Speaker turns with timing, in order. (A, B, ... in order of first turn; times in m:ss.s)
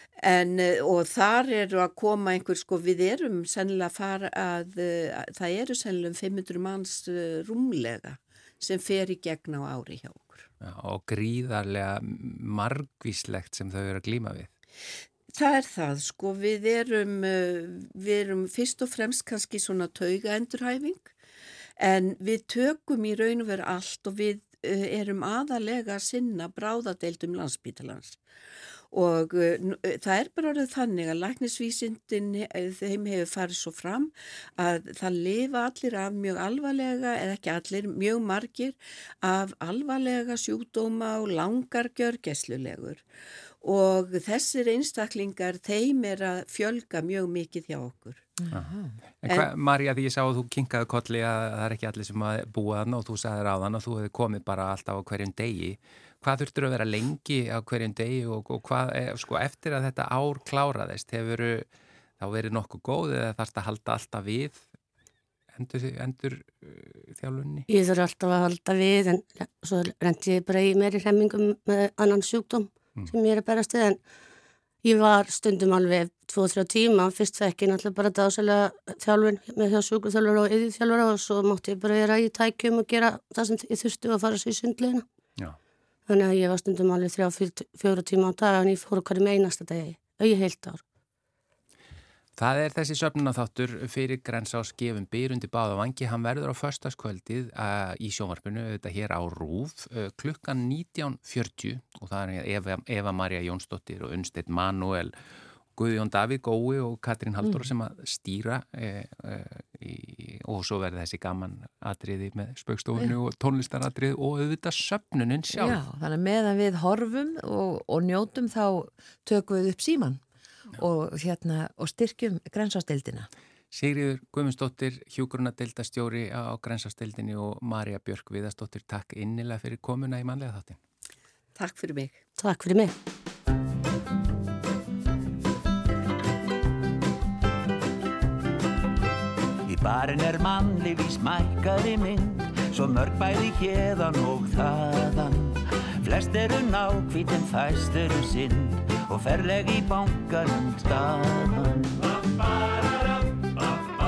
0:00.2-0:10.5 A
0:10.6-0:14.5 B
0:15.3-0:21.1 A
0:21.8-0:28.2 A
0:28.9-0:43.0 A
0:43.6-0:48.2 A
0:48.4-0:49.0 C
0:48.5-1:01.7 B
1:02.2-1:04.6 B
1:05.5-1:07.7 B
1:07.7-1:14.0 D
1:14.8-1:25.0 D
1:26.1-1:30.8 D
1:32.4-1:45.1 B
1:45.8-1:55.8 B
1:55.5-2:00.2 C
2:00.8-2:03.3 C
2:03.7-2:10.8 B
2:11.6-2:12.2 A
2:12.4-2:12.9 D
2:19.7-2:32.2 E